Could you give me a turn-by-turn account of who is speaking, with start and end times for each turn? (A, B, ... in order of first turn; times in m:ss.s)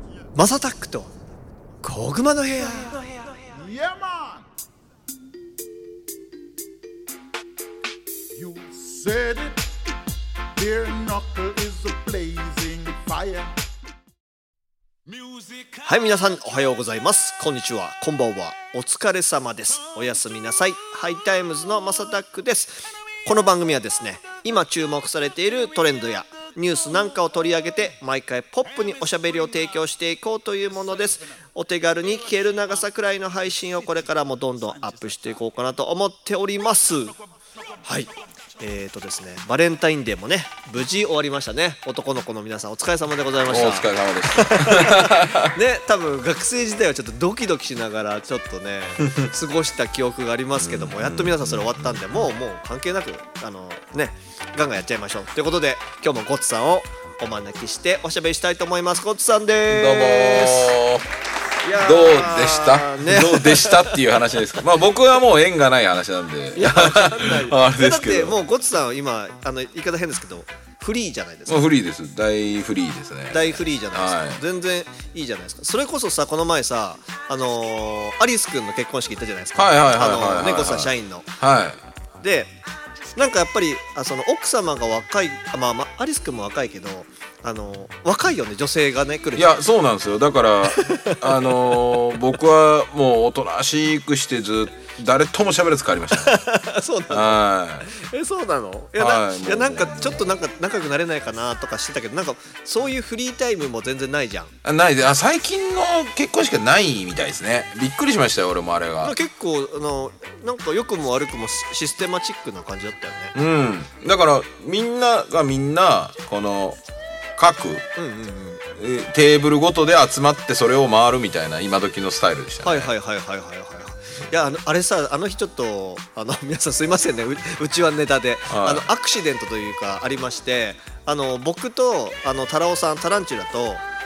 0:00.3-0:01.1 A
0:01.8-0:03.1 A
0:03.5-0:04.4 B
0:08.4-0:09.6 B
0:10.6-0:13.5 B
0:15.8-0:37.1 A
0:37.8-1:00.7 A
0:43.5-0:45.5 C
0:49.0-0:49.3 C
0:50.6-0:52.3 C
0:59.7-1:01.0 C
1:01.6-1:04.0 A
1:01.7-1:08.4 C
1:06.5-1:11.7 A
1:11.5-1:14.4 C
1:13.3-1:21.3 A
1:19.6-1:21.8 C
1:22.2-1:22.5 A
1:23.1-1:29.6 A
1:29.3-1:36.4 C
1:30.7-1:31.5 A
1:36.1-1:44.5 A
1:37.1-1:37.9 C
1:39.0-1:40.4 C
1:44.6-1:49.1 C
1:49.0-1:53.3 A
1:53.3-1:56.8 C
1:57.4-1:57.8 C
1:58.0-1:58.6 A
1:58.8-2:02.9 C
2:02.6-2:13.8 A
2:08.5-2:08.8 C